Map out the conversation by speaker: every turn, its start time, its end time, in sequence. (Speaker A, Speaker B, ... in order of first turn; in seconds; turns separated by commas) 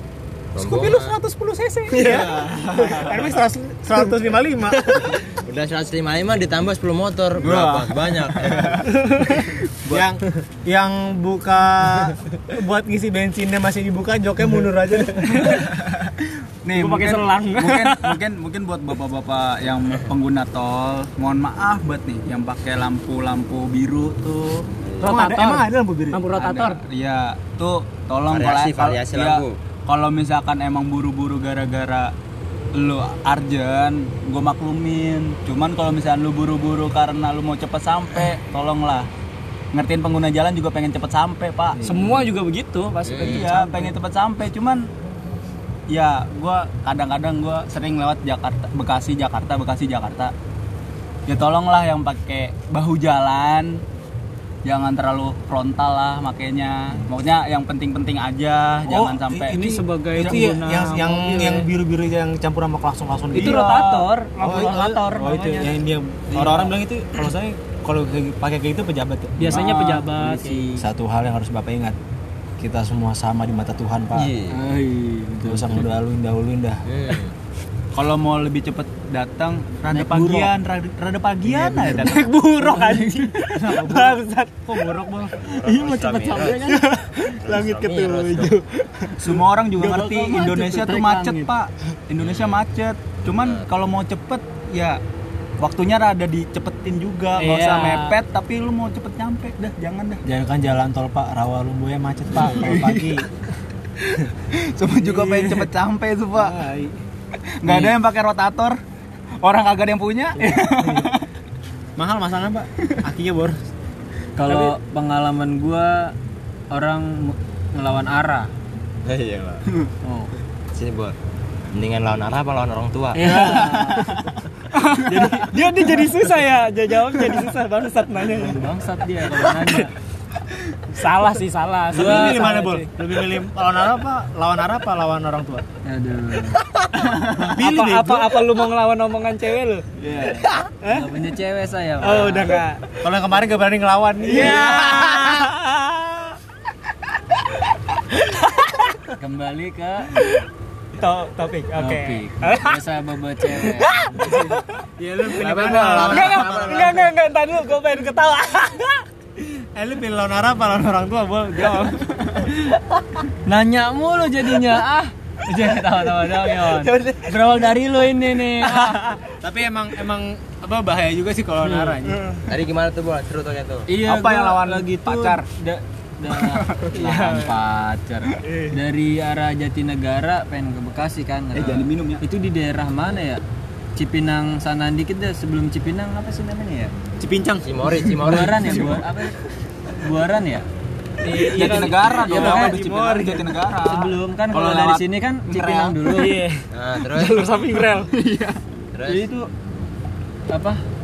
Speaker A: 0.5-1.1, Speaker B: 0.6-5.2, Speaker C: 1.9-3.4, Speaker A: 5.1-8.8, Speaker C: 7.4-9.0, Speaker D: 8.9-9.4, Speaker C: 9.6-10.1, Speaker B: 9.9-15.6, Speaker D: 15.2-15.6, Speaker C: 15.3-24.7, Speaker D: 16.7-18.2, Speaker A: 24.8-25.1, Speaker B: 25.0-26.2, Speaker D: 25.0-26.8, Speaker C: 26.4-32.1, Speaker A: 28.3-29.5, Speaker C: 32.7-39.1, Speaker C: 39.7-41.8, Speaker D: 41.8-43.9, Speaker A: 43.0-43.5, Speaker C: 43.2-44.9, Speaker C: 45.9-50.3, Speaker C: 51.2-53.8, Speaker C: 54.6-59.6, Speaker B: 58.9-69.8, Speaker D: 59.5-61.7, Speaker D: 63.3-65.7, Speaker C: 63.4-63.6, Speaker C: 66.3-66.6, Speaker D: 69.4-70.7, Speaker E: 69.4-70.8, Speaker B: 70.7-72.0, Speaker B: 72.6-74.3, Speaker A: 74.1-74.6, Speaker E: 74.5-75.9, Speaker B: 75.4-76.8, Speaker A: 76.8-77.3, Speaker C: 77.9-83.3, Speaker E: 79.9-80.5, Speaker B: 81.5-81.9, Speaker D: 81.8-84.8, Speaker B: 83.5-85.5, Speaker A: 85.4-86.7, Speaker D: 85.7-89.1, Speaker A: 87.4-88.5, Speaker C: 89.2-95.0, Speaker E: 89.8-91.5, Speaker A: 92.2-92.6, Speaker A: 93.3-93.7, Speaker C: 95.6-100.2, Speaker D: 97.4-98.1, Speaker B: 100.2-103.2, Speaker C: 102.3-103.2, Speaker C: 104.0-106.6, Speaker B: 105.0-105.7, Speaker B: 106.3-106.9, Speaker C: 107.6-108.8, Speaker E: 107.7-107.9, Speaker C: 109.4-111.2, Speaker B: 110.4-111.1, Speaker B: 112.0-113.6, Speaker E: 114.4-116.1, Speaker E: 116.7-118.5, Speaker A: 119.0-119.6, Speaker E: 120.0-120.3, Speaker A: 120.7-121.1, Speaker A: 121.7-123.6, Speaker E: 123.1-124.1, Speaker D: 123.5-123.9, Speaker D: 124.7-128.7, Speaker E: 128.2-129.9, Speaker D: 129.2-129.9, Speaker D: 130.9-132.9, Speaker B: 131.9-135.7, Speaker E: 131.9-132.6, Speaker E: 135.8-136.6, Speaker C: 136.9-137.5, Speaker B: 137.3-138.4, Speaker D: 137.4-139.8, Speaker C: 140.0-140.4, Speaker E: 140.3-142.6, Speaker D: 140.8-141.2, Speaker D: 142.0-142.8, Speaker B: 143.0-146.3, Speaker D: 144.3-145.5, Speaker C: 144.3-145.1, Speaker D: 148.3-148.7, Speaker E: 149.1-150.2, Speaker D: 151.0-152.8, Speaker E: 151.8-154.6, Speaker D: 153.6-159.0, Speaker B: 155.2-157.1, Speaker E: 155.3-156.3, Speaker A: 155.3-157.0, Speaker B: 159.4-162.1, Speaker E: 163.4-169.2, Speaker B: 169.3-172.3, Speaker E: 171.7-172.0, Speaker A: 172.4-173.9, Speaker E: 173.9-178.1, Speaker C: 174.0-175.4, Speaker C: 176.3-177.4, Speaker B: 177.1-177.5, Speaker E: 178.7-183.4, Speaker C: 181.5-182.2, Speaker E: 183.9-186.9, Speaker B: 187.2-187.8, Speaker A: 187.6-189.0, Speaker E: 188.1-189.4, Speaker E: 190.0-190.7, Speaker D: 191.2-193.5, Speaker C: 191.4-196.2, Speaker E: 191.6-192.7, Speaker E: 193.8-196.4, Speaker D: 196.1-198.1, Speaker A: 196.7-197.6, Speaker C: 198.0-198.6, Speaker A: 198.9-199.3, Speaker E: 199.1-199.5, Speaker E: 200.5-200.8